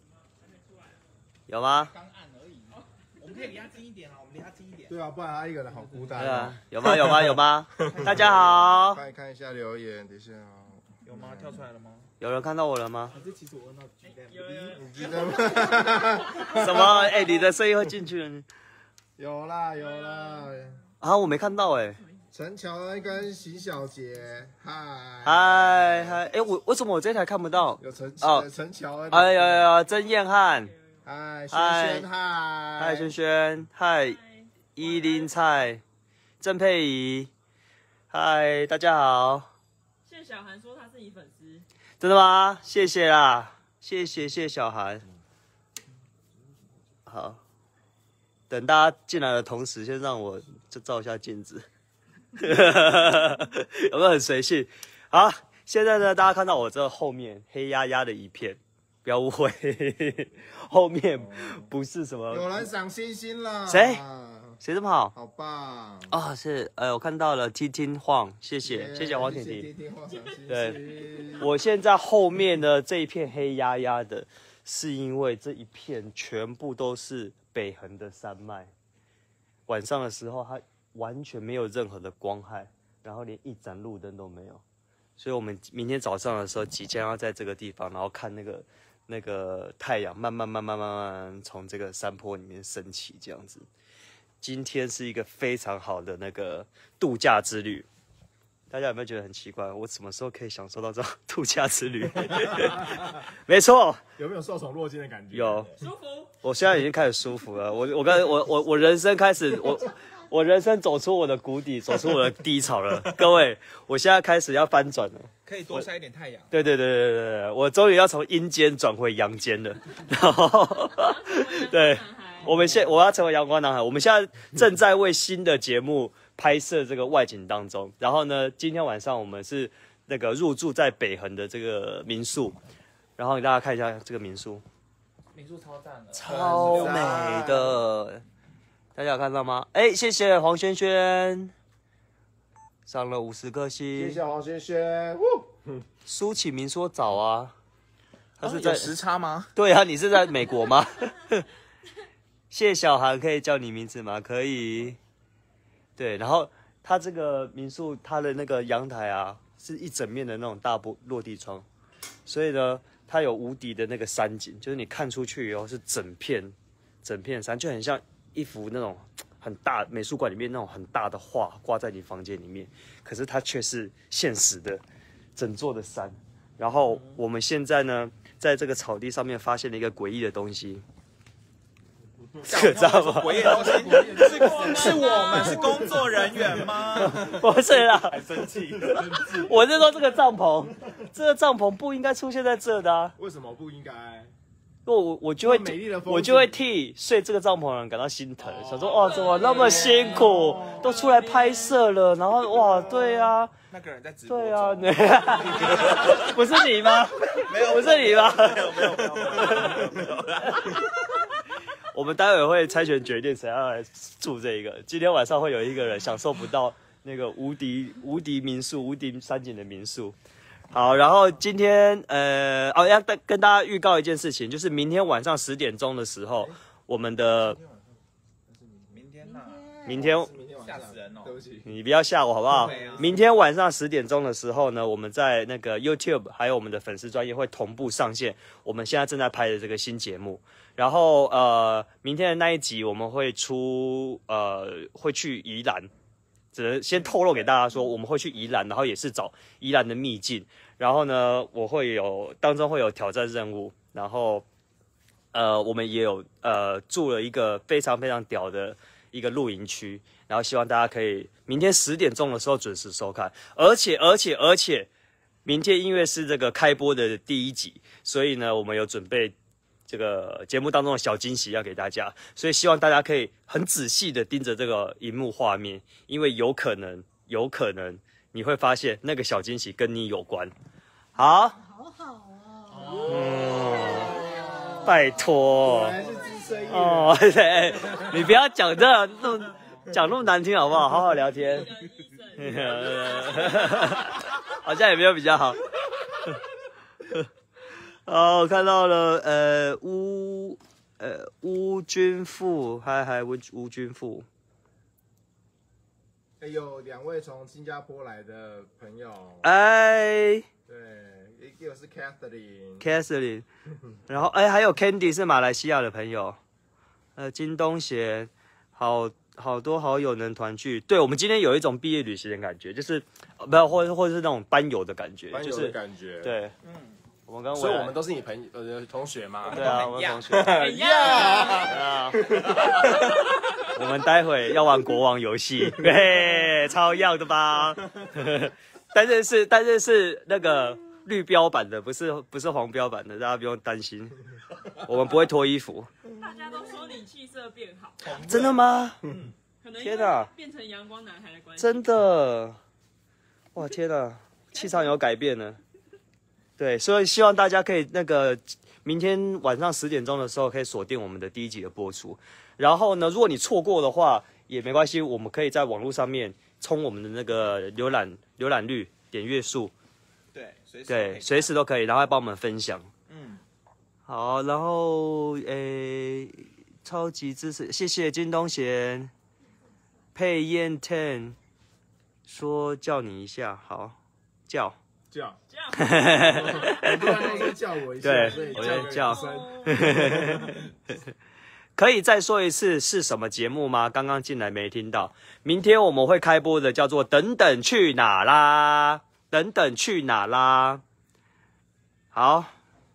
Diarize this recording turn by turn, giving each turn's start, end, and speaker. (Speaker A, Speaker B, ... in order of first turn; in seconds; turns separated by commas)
Speaker A: 1.5-1.9, Speaker B: 1.9-5.0, Speaker C: 4.9-7.2, Speaker A: 6.2-9.0, Speaker B: 7.8-8.8, Speaker C: 7.9-11.6, Speaker B: 11.0-12.1, Speaker A: 12.2-13.2, Speaker B: 13.1-14.8, Speaker D: 14.0-16.9, Speaker C: 14.8-17.2, Speaker A: 16.5-18.4, Speaker C: 19.2-20.8, Speaker D: 19.8-20.6, Speaker A: 21.0-22.0, Speaker D: 21.6-22.2, Speaker C: 22.3-26.2, Speaker A: 25.2-28.5, Speaker C: 27.8-29.6, Speaker A: 29.1-30.7, Speaker D: 29.9-31.0, Speaker C: 31.0-33.1, Speaker A: 31.5-32.1, Speaker A: 32.8-34.2, Speaker D: 34.0-35.3, Speaker A: 34.8-35.8, Speaker A: 36.4-37.3, Speaker A: 38.1-39.5, Speaker D: 40.0-41.6, Speaker A: 42.0-45.0, Speaker A: 47.1-47.4, Speaker A: 48.5-51.6, Speaker A: 52.4-62.5, Speaker C: 61.2-61.6, Speaker C: 62.3-64.6, Speaker A: 63.7-64.0, Speaker A: 64.6-65.1, Speaker C: 65.1-66.2, Speaker A: 66.1-69.7, Speaker C: 68.6-71.5, Speaker A: 70.5-70.8, Speaker A: 71.4-78.7, Speaker A: 79.7-84.6, Speaker A: 85.2-93.7, Speaker A: 94.4-97.8, Speaker A: 98.7-104.0, Speaker C: 104.2-105.8, Speaker A: 105.3-105.7, Speaker D: 105.8-106.3, Speaker A: 106.4-115.8, Speaker E: 109.9-110.3, Speaker B: 115.4-116.5, Speaker A: 116.5-132.6, Speaker D: 120.8-122.5, Speaker A: 133.2-134.6, Speaker B: 135.3-137.4, Speaker A: 136.1-138.2, Speaker C: 136.4-137.8, Speaker A: 138.9-141.5, Speaker A: 142.9-144.2, Speaker C: 143.9-145.8, Speaker A: 146.1-147.5, Speaker A: 148.4-148.9, Speaker B: 148.4-149.5, Speaker A: 149.6-151.5, Speaker A: 152.5-155.0, Speaker A: 156.0-161.6, Speaker A: 162.3-174.8, Speaker A: 175.3-180.8, Speaker A: 182.4-185.7, Speaker B: 182.5-187.3, Speaker C: 183.3-187.4, Speaker D: 184.3-186.1, Speaker A: 187.0-188.2, Speaker B: 188.1-189.0, Speaker C: 188.6-189.4, Speaker A: 188.8-193.2, Speaker C: 193.2-194.3, Speaker A: 194.8-203.5, Speaker C: 195.4-196.6, Speaker C: 198.4-201.1, Speaker D: 198.8-201.8, Speaker C: 202.4-203.3, Speaker B: 203.7-206.4, Speaker A: 204.3-209.8, Speaker B: 207.3-210.8, Speaker A: 210.4-211.2, Speaker A: 211.9-220.2, Speaker A: 220.7-227.6, Speaker C: 228.5-229.0, Speaker B: 228.9-229.7, Speaker E: 229.2-230.2, Speaker A: 229.8-230.3, Speaker C: 229.9-231.7, Speaker B: 230.6-231.3, Speaker A: 231.7-245.9, Speaker C: 232.4-233.2, Speaker B: 232.5-233.1, Speaker A: 246.5-254.4, Speaker A: 255.3-264.9, Speaker A: 265.4-269.3, Speaker A: 269.9-280.5, Speaker A: 281.1-281.6, Speaker E: 281.2-288.2, Speaker B: 282.7-283.8, Speaker C: 282.8-285.1, Speaker A: 283.1-284.2, Speaker A: 284.8-286.0, Speaker C: 285.6-287.3, Speaker A: 286.7-291.7, Speaker C: 287.8-288.2, Speaker D: 291.3-294.1, Speaker A: 292.4-295.6, Speaker A: 298.1-304.2, Speaker C: 306.4-309.5, Speaker A: 309.4-310.4, Speaker C: 310.7-312.9, Speaker A: 312.8-313.4, Speaker A: 314.1-316.4, Speaker A: 317.2-326.5, Speaker C: 325.3-326.3, Speaker B: 326.6-327.0, Speaker A: 327.3-327.9, Speaker C: 327.5-333.1, Speaker B: 329.4-330.4, Speaker A: 329.5-330.5, Speaker D: 330.5-333.1, Speaker A: 331.6-332.2, Speaker B: 332.5-332.8, Speaker A: 333.7-344.2, Speaker A: 344.8-345.9, Speaker D: 346.1-348.2, Speaker B: 348.1-349.3, Speaker A: 348.1-349.0, Speaker D: 349.6-351.9, Speaker A: 349.8-350.3, Speaker A: 351.6-352.6, Speaker A: 353.5-355.6, Speaker D: 354.5-355.0, Speaker A: 356.6-369.7, Speaker B: 370.3-371.5, Speaker A: 370.9-372.9, Speaker B: 373.1-373.4, Speaker A: 374.1-379.1, Speaker A: 380.1-381.4, Speaker A: 382.3-383.9, Speaker A: 384.5-384.8, Speaker C: 385.1-385.4, Speaker D: 385.5-387.5, Speaker A: 385.8-387.3, Speaker C: 386.2-390.6, Speaker A: 388.0-390.5, Speaker D: 388.2-389.5, Speaker A: 391.8-400.8, Speaker A: 402.1-402.5